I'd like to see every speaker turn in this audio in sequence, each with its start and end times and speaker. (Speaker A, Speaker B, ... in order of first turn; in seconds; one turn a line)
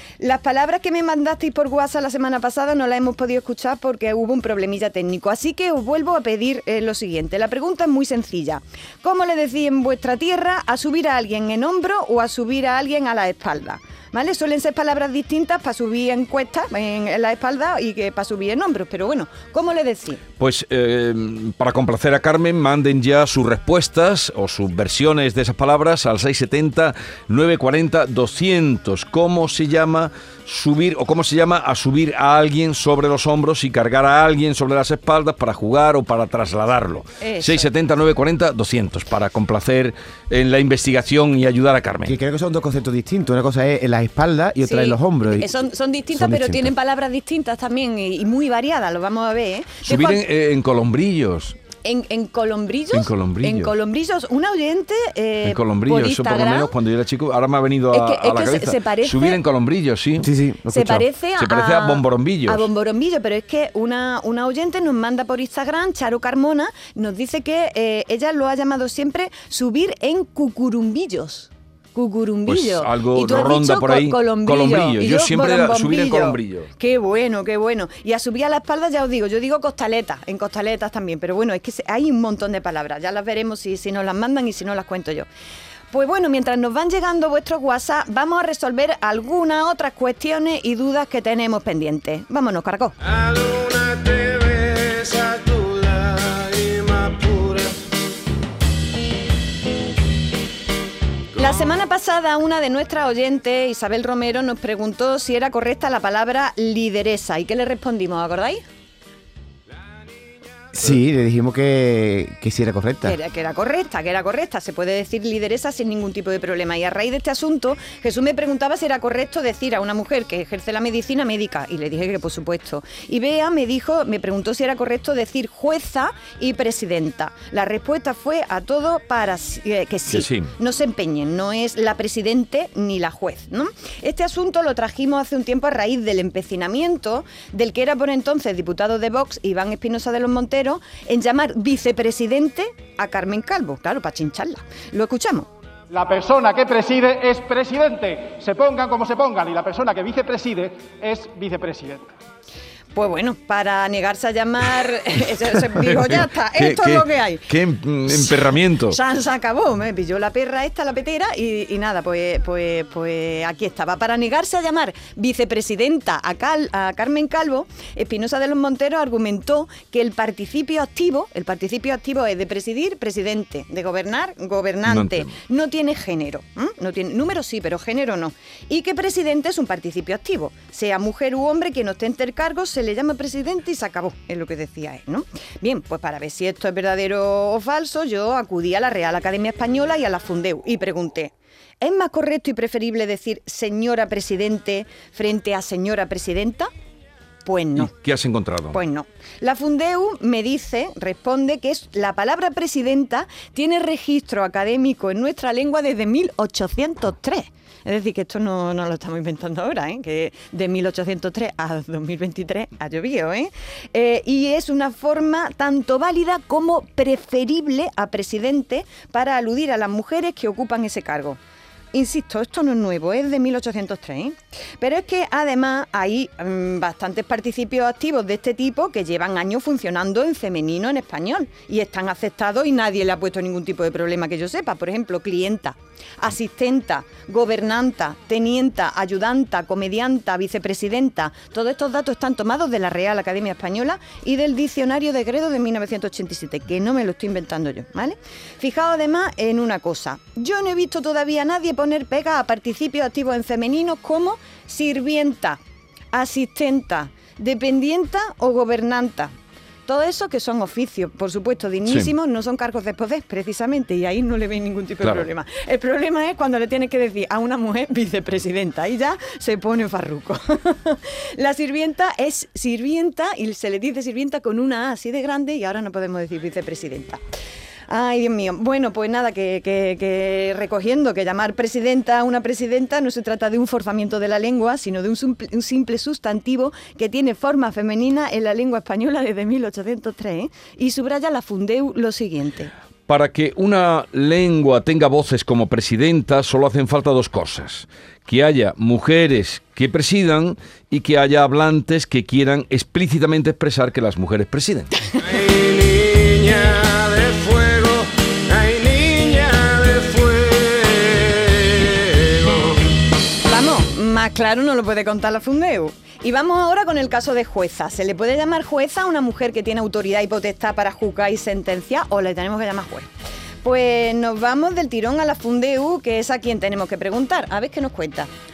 Speaker A: 0.2-20.2
Speaker B: 20.4-42.1
Speaker A: 37.2-37.7
Speaker C: 42.0-45.5
Speaker A: 44.6-50.2
Speaker C: 46.1-46.7
Speaker B: 49.8-51.5
Speaker A: 51.8-56.8
Speaker B: 52.9-53.7
Speaker B: 55.4-60.3
Speaker A: 57.9-59.4
Speaker C: 60.2-61.0
Speaker A: 60.7-85.3
Speaker B: 60.8-62.7
Speaker B: 72.5-76.7
Speaker A: 85.9-92.9
Speaker D: 93.2-97.7
Speaker A: 101.3-108.6
Speaker C: 110.7-113.2
Speaker A: 113.0-145.5
Speaker B: 130.1-130.5
Speaker E: 145.9-152.0
Speaker A: 152.9-157.5
Speaker B: 155.8-159.0
Speaker A: 158.1-196.7
Speaker B: 174.8-175.3
Speaker A: 197.4-197.9
Speaker B: 197.8-198.8
Speaker A: 198.7-221.4
Speaker A: 221.9-255.6
Speaker A: 256.1-259.3
Speaker A: 259.9-277.2
Speaker B: 261.9-262.1
Speaker B: 265.0-265.3
Speaker A: 277.9-292.7
Speaker B: 293.1-305.0
Speaker D: 306.4-306.7
Speaker A: 313.5-323.1
Speaker A: 323.6-328.3